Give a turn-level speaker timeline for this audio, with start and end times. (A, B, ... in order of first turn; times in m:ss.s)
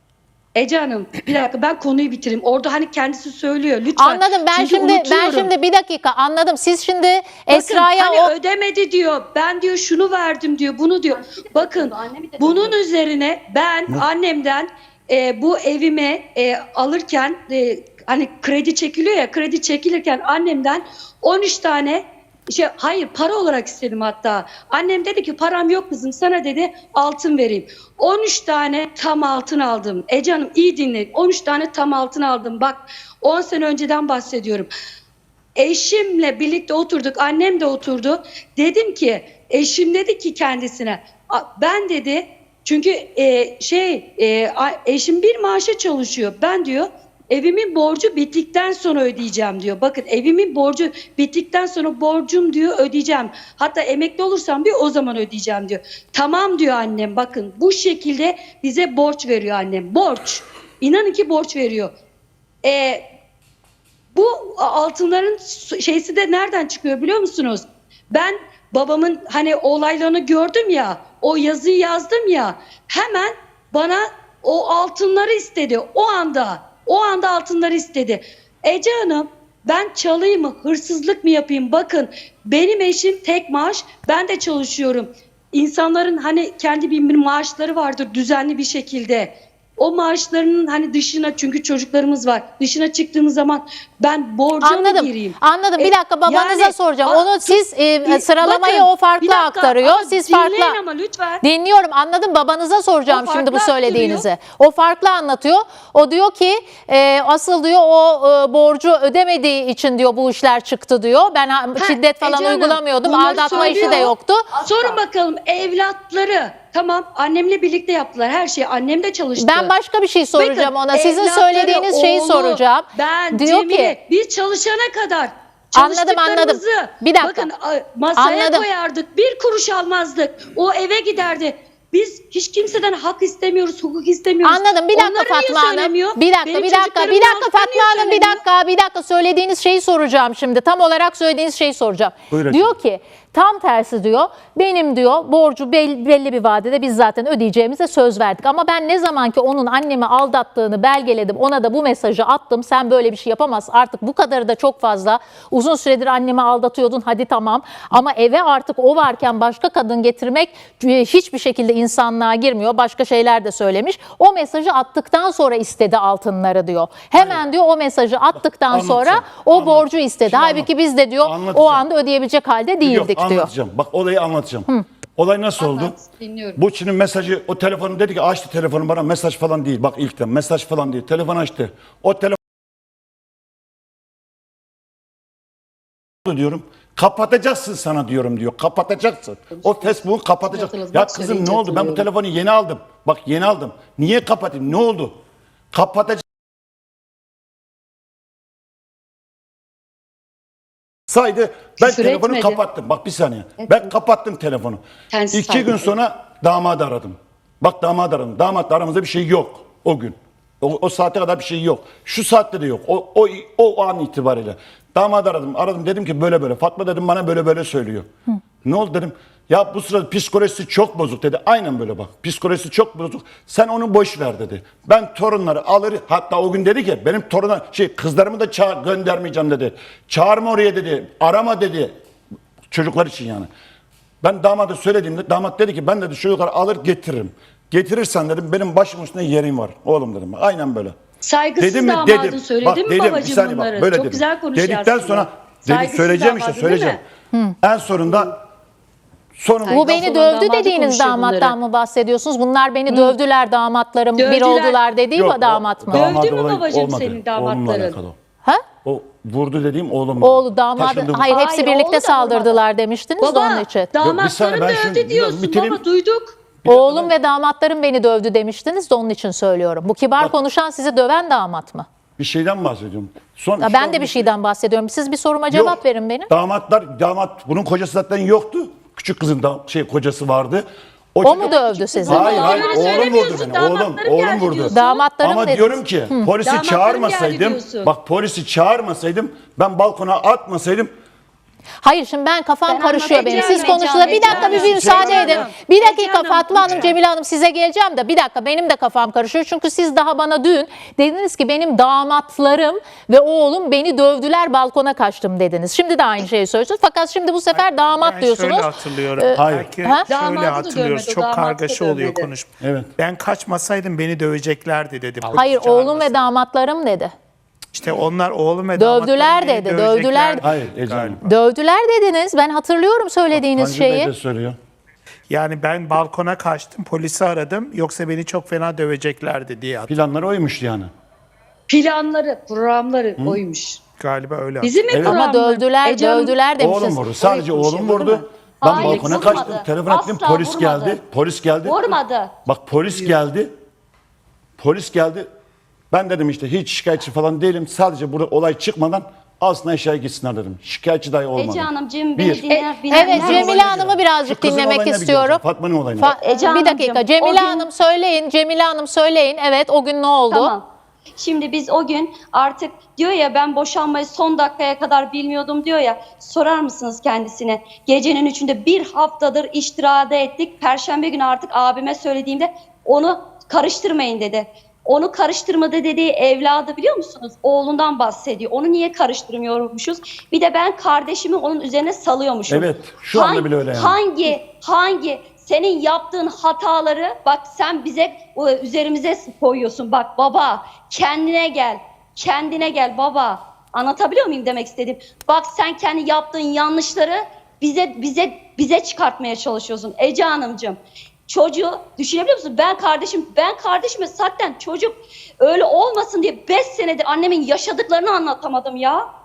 0:00.6-0:05.5 A
0:04.0-0:08.3 B
0:07.5-0:34.7 A
0:11.1-0:12.8 C
0:35.6-1:01.9 A
1:02.6-1:03.0 A
1:04.1-1:41.4 A
1:34.6-1:40.8 B
1:41.4-1:54.5 B
1:43.1-1:44.3 A
1:51.8-1:59.7 A
1:53.3-1:55.0 C
1:59.4-2:04.0 B
2:00.3-2:18.4 A
2:05.7-2:07.5 B
2:08.2-2:08.6 B
2:14.4-2:53.5 B
2:22.3-2:22.8 D
2:47.1-2:47.4 D
2:48.3-2:51.8 D
2:52.8-2:55.9 D
2:55.6-2:56.6 A
2:56.6-3:02.4 D
3:06.2-3:15.2 D
3:09.6-3:10.0 A
3:10.5-3:12.1 A
3:15.7-3:16.2 D
3:21.1-3:38.1 D
3:21.8-3:22.6 A
3:25.1-3:25.9 A
3:38.6-3:51.9 D
3:52.7-3:53.5 D
3:54.2-4:00.9 D
4:01.2-4:07.0 A
4:01.6-4:07.0 D
4:07.6-4:08.4 D
4:09.4-4:10.0 D
4:09.6-4:11.6 A
4:09.7-4:16.2 B
4:14.2-4:14.8 A
4:15.1-4:18.2 D
4:15.9-4:18.0 A
4:18.8-4:21.4 D
4:20.2-4:23.9 B
4:21.3-4:22.6 C
4:23.2-4:26.4 A
4:24.0-4:25.8 D
4:26.6-4:27.1 D
4:26.7-4:31.8 B
4:32.2-4:34.3 D
4:33.6-4:36.3 B
4:35.5-4:50.9 D
4:41.2-4:42.6 B
4:41.6-4:44.8 A
4:42.1-4:44.1 C
4:44.7-4:46.3 B
4:46.4-4:47.9 A
4:51.8-5:10.1 B
4:52.7-4:55.1 C
4:52.9-4:56.9 A
4:54.2-4:55.5 D
5:07.5-5:16.3 E
5:09.3-5:09.7 D
5:10.1-5:12.3 A
5:12.6-5:12.9 D
5:15.3-5:17.1 B
5:17.7-5:21.3 E
5:18.7-5:20.5 B
5:20.4-5:21.2 D
5:21.2-5:24.1 B
5:23.3-5:24.6 D
5:25.3-5:29.9 E
5:29.9-5:30.9 D
5:31.7-5:33.8 A
5:34.0-5:34.8 E
5:34.6-5:36.4 A
5:34.9-5:35.2 D
5:35.0-5:37.0 B
5:36.6-5:41.9 D
5:37.2-5:39.5 A
5:38.6-5:41.0 C
5:41.6-5:42.3 C
5:42.4-5:43.5 D
5:44.6-5:45.3 D
5:45.9-5:56.1 D
5:51.3-5:53.8 C
5:52.5-5:55.4 B
5:56.0-6:00.5 B
5:56.2-5:57.7 C
6:00.3-6:00.6 C
6:01.2-6:49.0 C
6:22.5-6:24.0 D